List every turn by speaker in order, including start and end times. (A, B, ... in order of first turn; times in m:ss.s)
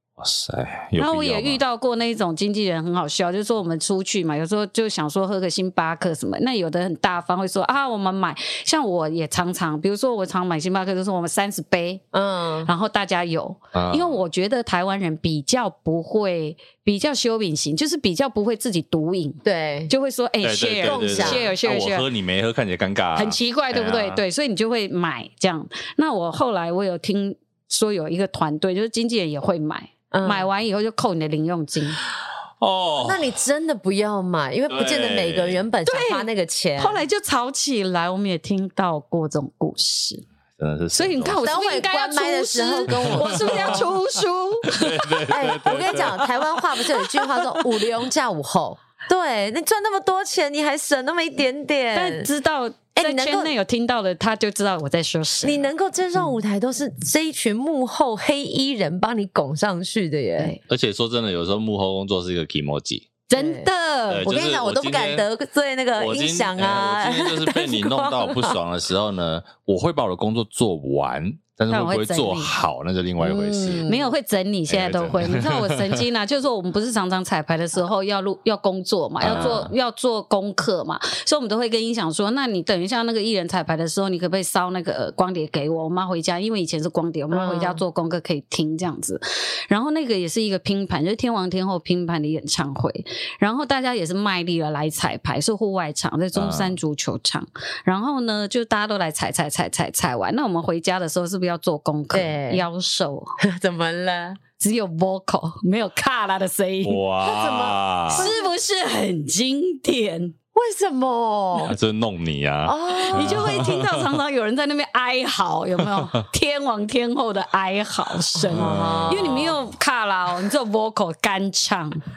0:00.2-0:01.6 A
0:01.0-0:12.0 B
0:12.1-0:12.7 C
0:12.6-0:22.0 B
0:13.7-0:14.2 A
0:19.4-0:19.9 C
0:20.4-0:24.2 A
0:20.8-0:21.5 C
0:23.2-0:32.0 B
0:30.1-0:30.5 C
0:32.6-0:33.3 A
0:33.0-0:37.0 C
0:34.7-0:35.6 A
0:35.8-0:40.2 B
0:40.6-0:41.4 A
0:40.9-0:45.3 B
0:41.4-0:43.9 C
0:42.9-0:43.8 A
0:44.7-0:46.2 A
0:45.3-0:52.3 C
0:46.9-0:47.7 B
0:51.9-0:55.7 B
0:53.0-0:53.5 C
0:55.4-1:00.5 C
1:00.7-1:03.1 A
1:03.3-1:04.2 B
1:03.3-1:03.7 C
1:04.1-1:05.3 A
1:04.2-1:08.6 C
1:06.0-1:13.8 A
1:11.7-1:12.5 B
1:13.2-1:14.1 C
1:13.8-1:43.4 B
1:14.7-1:16.0 A
1:19.2-1:19.7 A
1:19.3-1:19.6 C
1:27.3-1:27.8 C
1:36.3-1:36.7 A
1:42.1-1:42.6 C
1:43.4-1:44.4 C
1:44.6-1:47.0 B
1:46.8-1:48.3 A
1:47.2-1:48.5 C
1:48.1-1:50.3 B
1:50.5-1:51.7 C
1:51.6-1:54.2 A
1:52.6-1:53.7 C
1:53.0-2:02.0 B
1:58.4-1:59.5 C
1:58.5-1:59.5 A